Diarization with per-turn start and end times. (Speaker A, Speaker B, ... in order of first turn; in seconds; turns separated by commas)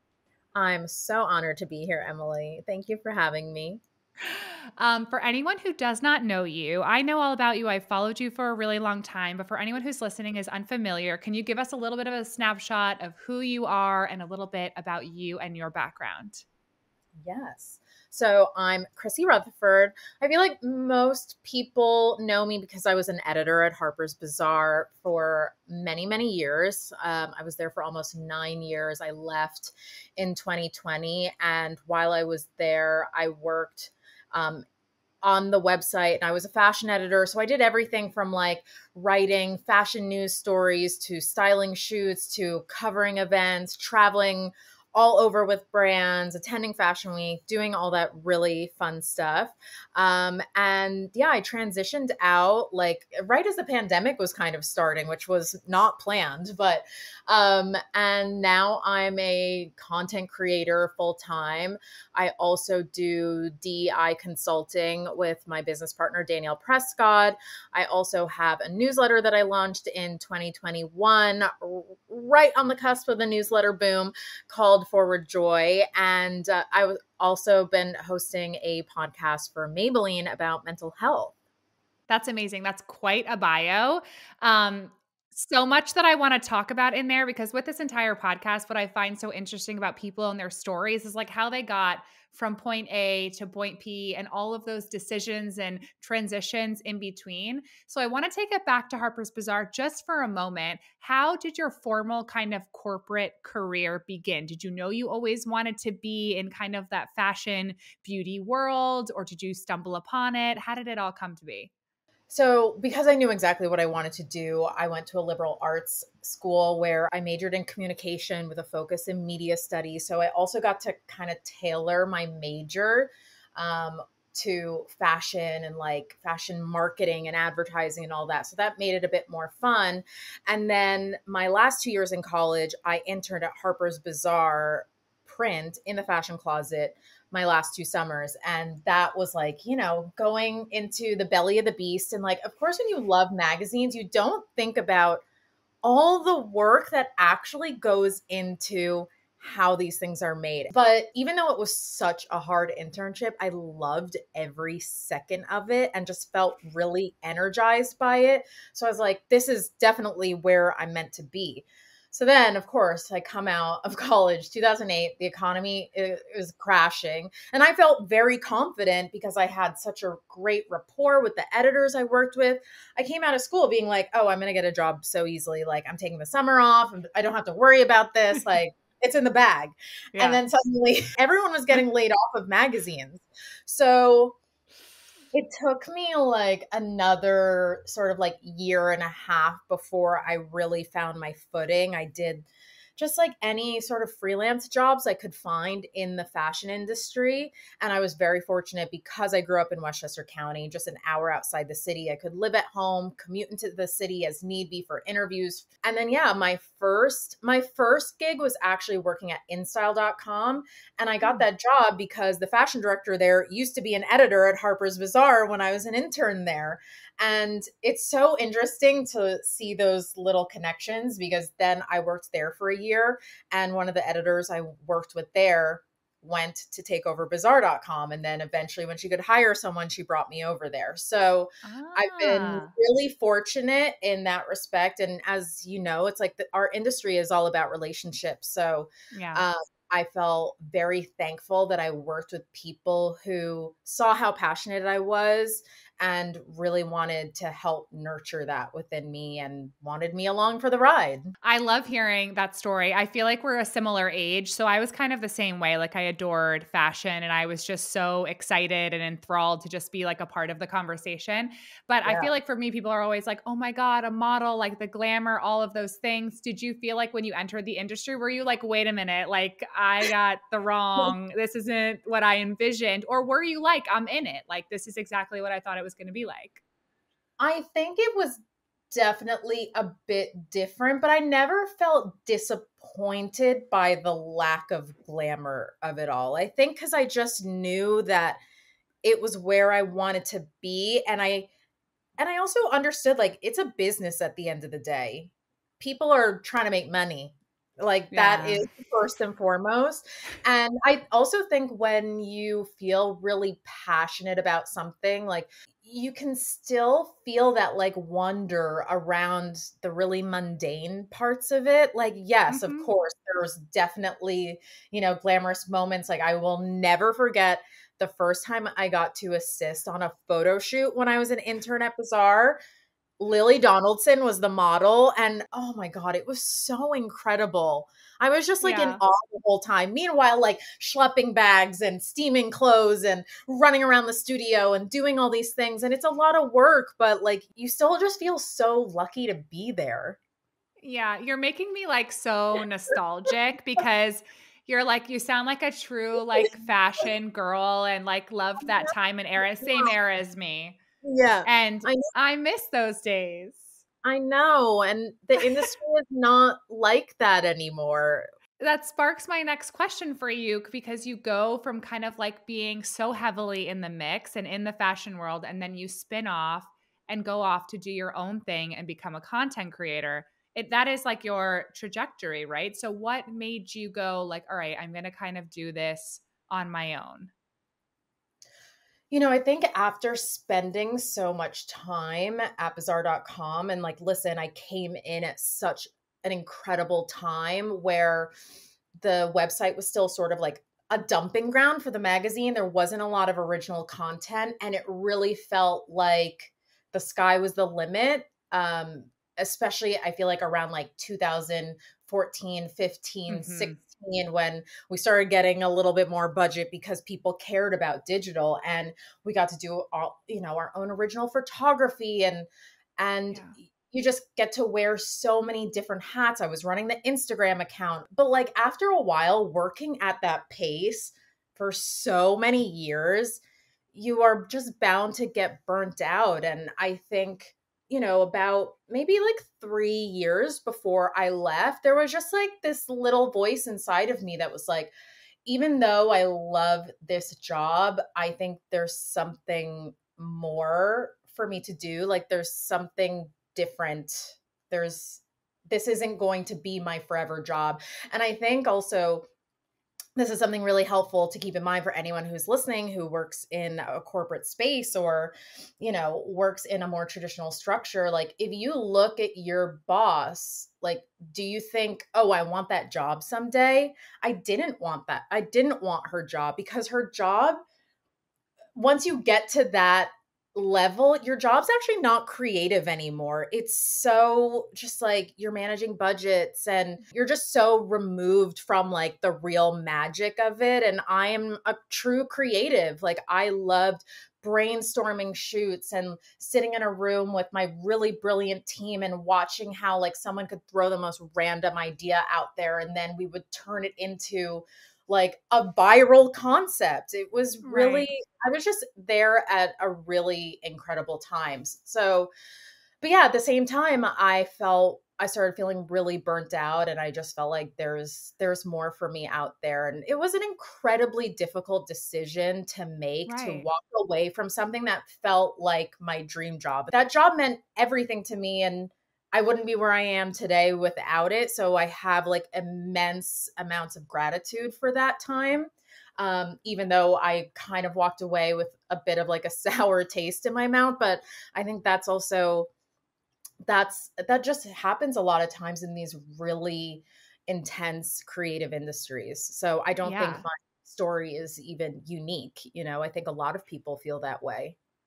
Speaker A: 0.6-3.8, Speaker B: 4.2-16.5, Speaker A: 17.2-34.6, Speaker A: 35.2-81.3, Speaker B: 82.1-111.7, Speaker A: 112.3-145.2, Speaker A: 145.8-184.4, Speaker B: 180.2-180.4, Speaker A: 185.3-251.3, Speaker B: 231.6-232.7, Speaker B: 239.1-239.5, Speaker B: 251.4-276.6, Speaker A: 262.1-262.3, Speaker A: 277.4-278.4, Speaker A: 278.9-288.4, Speaker A: 289.0-291.5, Speaker A: 292.2-322.6, Speaker B: 298.1-298.7, Speaker B: 312.5-312.9, Speaker A: 323.2-340.2, Speaker B: 328.6-329.0, Speaker B: 340.8-350.8, Speaker A: 348.7-348.9, Speaker A: 349.6-349.9, Speaker A: 351.0-352.1, Speaker B: 351.4-353.8, Speaker A: 354.0-358.3, Speaker B: 358.6-377.3, Speaker A: 379.1-388.3, Speaker A: 389.0-423.4, Speaker B: 403.3-403.8, Speaker A: 423.9-434.9, Speaker A: 435.5-449.3, Speaker A: 450.2-467.6, Speaker A: 468.8-502.3, Speaker B: 497.6-498.1, Speaker A: 503.0-532.7, Speaker B: 513.3-513.7, Speaker A: 533.6-544.8, Speaker B: 540.0-540.5